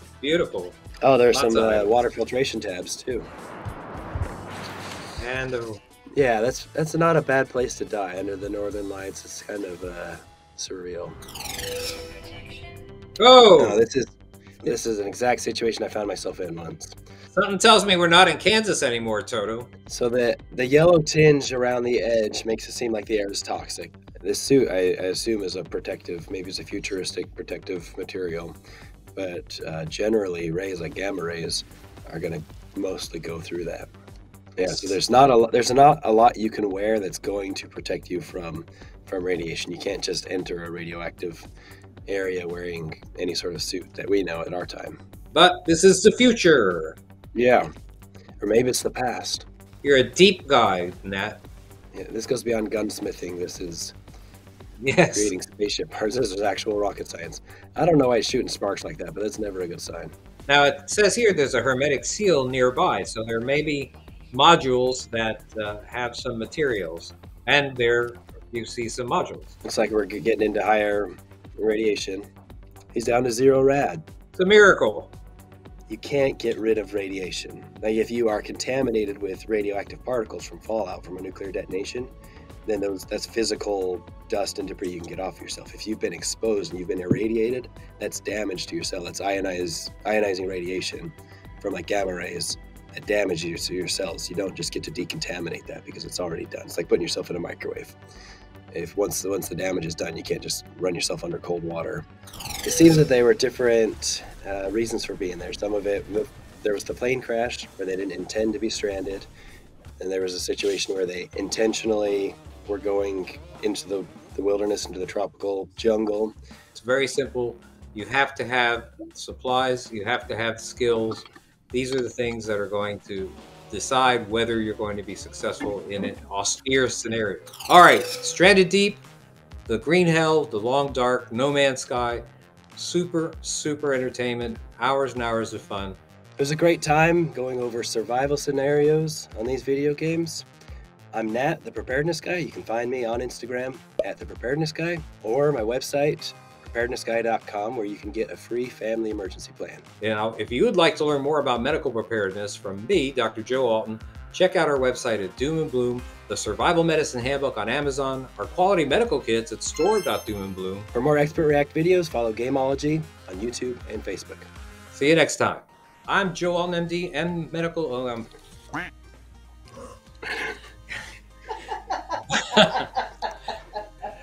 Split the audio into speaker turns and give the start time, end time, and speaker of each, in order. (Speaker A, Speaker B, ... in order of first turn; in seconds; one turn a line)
Speaker A: 0.2-0.8
Speaker B: 1.0-3.3
Speaker A: 1.3-1.9
Speaker A: 5.2-5.8
Speaker B: 6.1-11.2
Speaker A: 13.2-13.8
Speaker B: 13.6-17.0
Speaker A: 17.3-19.7
Speaker B: 19.9-28.6
Speaker B: 29.1-33.9
Speaker B: 34.6-41.5
Speaker B: 42.1-45.0
Speaker A: 45.3-47.0
Speaker B: 47.4-47.7
Speaker B: 48.4-49.5
Speaker A: 49.8-51.4
Speaker B: 51.9-53.9
Speaker A: 54.8-55.3
Speaker B: 55.1-60.1
Speaker A: 60.5-69.5
Speaker B: 69.6-72.3
Speaker B: 72.9-74.0
Speaker A: 74.3-75.1
Speaker B: 75.9-82.1
Speaker B: 82.7-98.0
Speaker B: 98.7-102.0
Speaker B: 102.6-109.3
Speaker B: 110.0-116.3
Speaker A: 116.7-129.0
Speaker A: 129.7-136.0
Speaker B: 136.4-140.5
Speaker B: 141.1-149.8
Speaker A: 150.0-160.9
Speaker B: 160.9-164.5
Speaker A: 164.9-168.3
Speaker A: 172.3-172.9